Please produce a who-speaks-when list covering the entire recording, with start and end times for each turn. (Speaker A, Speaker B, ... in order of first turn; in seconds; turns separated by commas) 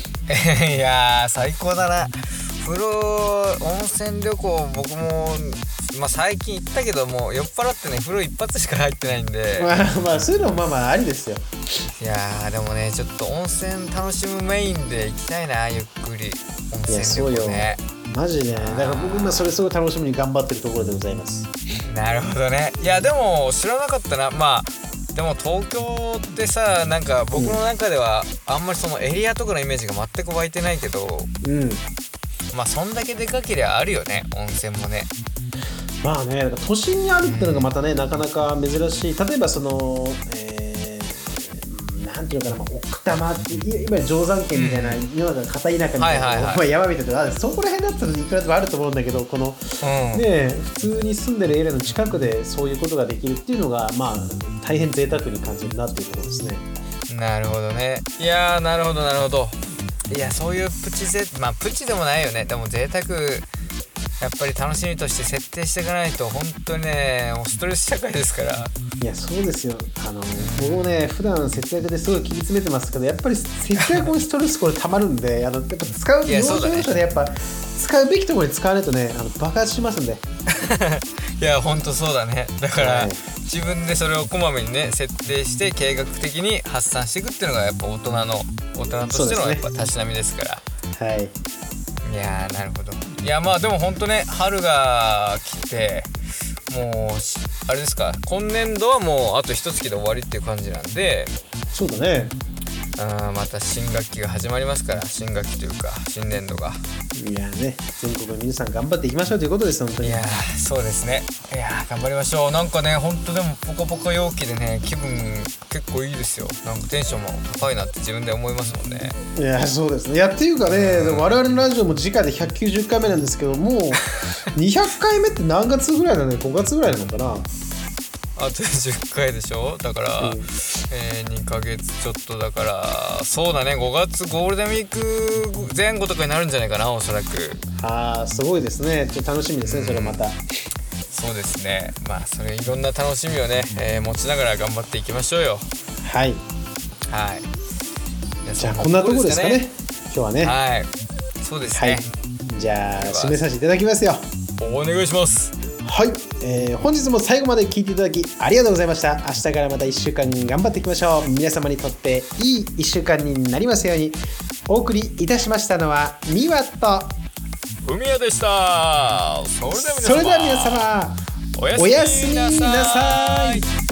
Speaker A: 0.3-10.3, Speaker B: 9.6-11.5, Speaker A: 11.9-17.8, Speaker B: 16.9-21.5, Speaker A: 18.5-19.5, Speaker A: 21.9-31.3, Speaker B: 27.3-27.6, Speaker B: 31.4-31.8, Speaker A: 32.5-35.1, Speaker B: 36.0-56.7, Speaker A: 37.2-37.7, Speaker A: 44.5-45.0, Speaker A: 46.0-46.6, Speaker A: 49.8-50.2, Speaker A: 57.1-63.5, Speaker A: 64.2-68.7, Speaker B: 69.0-80.2, Speaker A: 70.4-71.0, Speaker A: 73.8-74.1, Speaker A: 76.2-77.0, Speaker A: 80.5-90.6, Speaker B: 82.8-83.2, Speaker B: 89.1-89.7, Speaker B: 91.0-91.3, Speaker A: 92.0-96.1, Speaker A: 96.7-101.3, Speaker B: 101.7-102.3, Speaker A: 103.0-106.8, Speaker B: 107.2-110.2, Speaker A: 110.0-119.2, Speaker B: 119.4-127.5, Speaker A: 120.7-121.4, Speaker A: 128.4-137.6, Speaker B: 130.2-130.5, Speaker B: 137.8-140.4, Speaker A: 139.6-140.2, Speaker A: 141.1-145.7, Speaker B: 146.0-146.4, Speaker A: 147.1-147.5, Speaker A: 148.4-149.6, Speaker B: 148.6-150.6, Speaker A: 150.4-150.9, Speaker A: 151.4-152.1, Speaker B: 151.7-154.3, Speaker A: 153.0-153.4, Speaker A: 154.6-155.6, Speaker B: 155.8-167.2, Speaker A: 167.8-170.9, Speaker B: 169.7-171.2, Speaker A: 171.6-173.7, Speaker B: 171.8-173.7